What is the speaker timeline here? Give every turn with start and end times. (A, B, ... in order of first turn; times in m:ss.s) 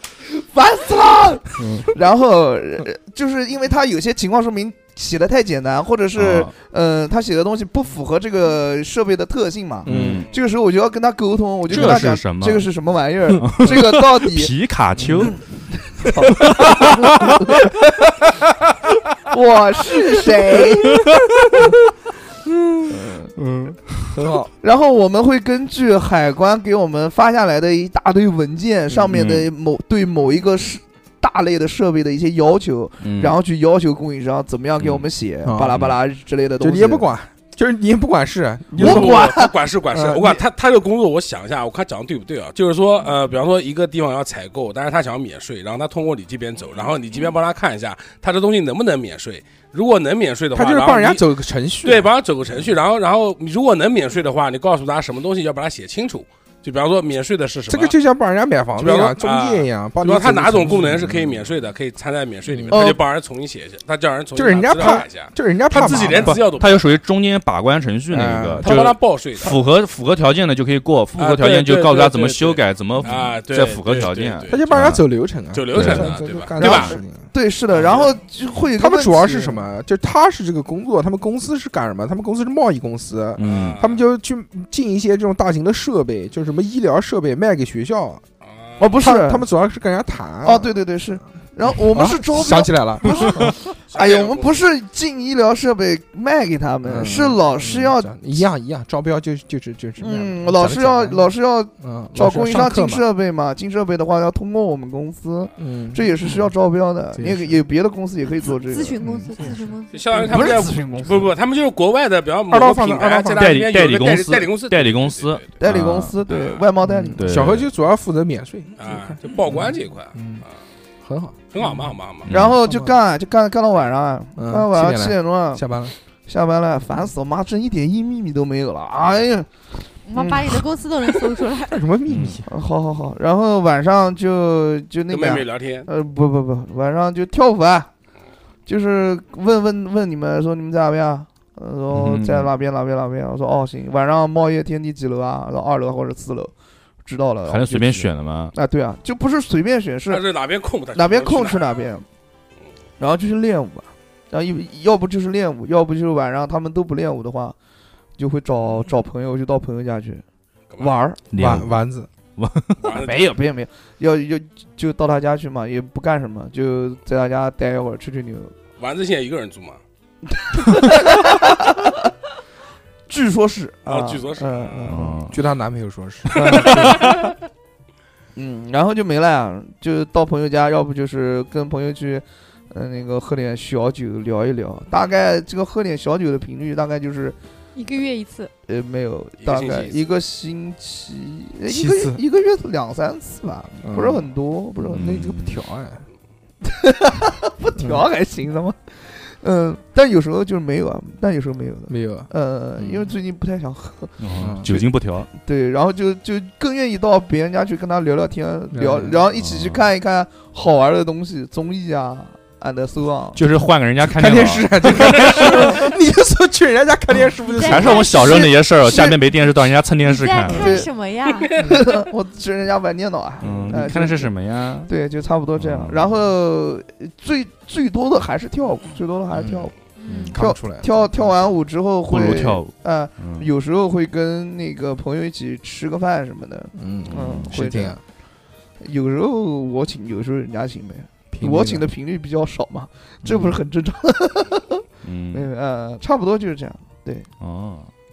0:00.3-0:14.5 A
0:01.6-0:01.9 B
0:06.2-0:06.5 B
0:09.8-0:10.3 B
0:09.8-0:10.3 C
0:11.7-0:12.7 B
0:11.7-0:12.0 C
0:13.4-0:15.4 B
0:15.0-0:15.3 C
0:15.9-0:17.7 A
0:16.4-0:17.4 B
0:19.3-0:21.1 A
0:21.0-0:21.5 B
0:22.9-0:23.3 A
0:23.4-0:24.2 B
0:24.1-0:24.5 C
0:24.6-0:37.1 A
0:29.1-0:29.5 B
0:33.0-0:33.4 B
0:34.8-0:35.1 B
0:35.4-0:35.9 C
0:36.6-0:39.3 C
0:38.7-0:39.5 A
0:38.8-0:51.3 D
0:39.9-0:40.4 C
0:50.5-0:52.1 C
0:51.8-0:57.9 D
0:57.7-1:01.4 C
0:58.8-1:07.0 D
1:02.7-1:03.0 A
1:04.3-1:06.4 C
1:05.8-1:15.0 B
1:08.1-1:08.8 C
1:08.6-1:09.6 D
1:11.2-1:14.6 D
1:14.5-1:17.2 C
1:15.5-1:16.9 D
1:15.7-1:16.1 B
1:16.6-1:19.6 A
1:18.8-1:28.2 C
1:23.4-1:23.8 B
1:23.4-1:23.9 D
1:28.8-1:29.4 A
1:29.0-1:30.7 C
1:30.4-1:38.2 A
1:31.9-1:33.4 C
1:33.9-1:34.6 D
1:36.8-1:41.3 C
1:40.0-1:49.0 A
1:41.8-1:43.0 C
1:45.6-1:46.4 C
1:47.2-1:47.6 C
1:48.6-1:50.4 E
1:49.0-1:49.7 C
1:49.9-1:55.5 D
1:50.2-1:51.3 A
1:52.5-1:53.6 C
1:53.4-1:56.2 B
1:55.6-1:57.3 A
1:56.9-2:00.4 C
1:57.1-1:57.7 B
1:58.8-2:00.2 D
2:01.0-2:01.5 C
2:01.5-2:02.3 D
2:02.2-2:02.6 B
2:02.3-2:05.6 A
2:02.3-2:02.9 C
2:04.4-2:05.9 C
2:06.3-2:09.5 A
2:10.0-2:11.8 E
2:10.2-2:10.6 A
2:11.6-2:12.4 C
2:12.1-2:12.4 B
2:12.5-2:17.9 A
2:15.1-2:15.9 D
2:18.6-2:26.5 A
2:21.9-2:22.5 B
2:27.0-2:30.2 A
2:27.4-2:28.5 B
2:30.1-2:31.6 D
2:30.9-2:32.0 A
2:33.0-2:37.6 A
2:38.2-2:40.2 A
2:40.8-2:41.2 A
2:41.3-2:41.8 B
2:41.3-2:42.1 C
2:42.4-2:43.0 B
2:42.8-2:43.2 D
2:42.9-2:48.5 A
2:48.8-2:49.8 D
2:50.4-2:51.9 A
2:53.1-2:55.2 A
2:53.8-2:55.0 D
2:54.9-2:55.4 B
2:55.3-2:57.0 C
2:56.4-2:57.1 A
2:58.4-3:07.4 A
3:07.8-3:08.5 E
3:08.7-3:15.1 A
3:09.4-3:10.0 D
3:11.7-3:12.2 C
3:13.8-3:14.2 C
3:14.8-3:16.0 C
3:14.9-3:15.6 B
3:16.6-3:33.4 A
3:17.8-3:18.0 C
3:21.9-3:22.3 C
3:22.8-3:23.1 B
3:24.2-3:25.3 B
3:24.4-3:24.7 C
3:28.7-3:29.2 C
3:29.3-3:29.8 B
3:33.3-3:35.9 B
3:34.0-3:38.4 C
3:37.4-3:38.6 E
3:37.6-3:40.9 B
3:38.1-3:39.2 A
3:40.0-3:41.7 E
3:40.5-3:40.9 A
3:41.6-3:44.3 A
3:43.4-3:44.9 B
3:44.9-3:49.7 A
3:45.6-3:46.1 B
3:49.4-3:51.3 C
3:50.0-3:50.4 E
3:50.3-3:58.0 A
3:52.1-3:53.5 B
3:56.8-3:58.0 C
3:57.0-3:57.5 B
3:58.8-4:07.3 A
4:01.3-4:01.9 C
4:03.3-4:03.5 B
4:05.0-4:05.5 B
4:07.4-4:07.9 B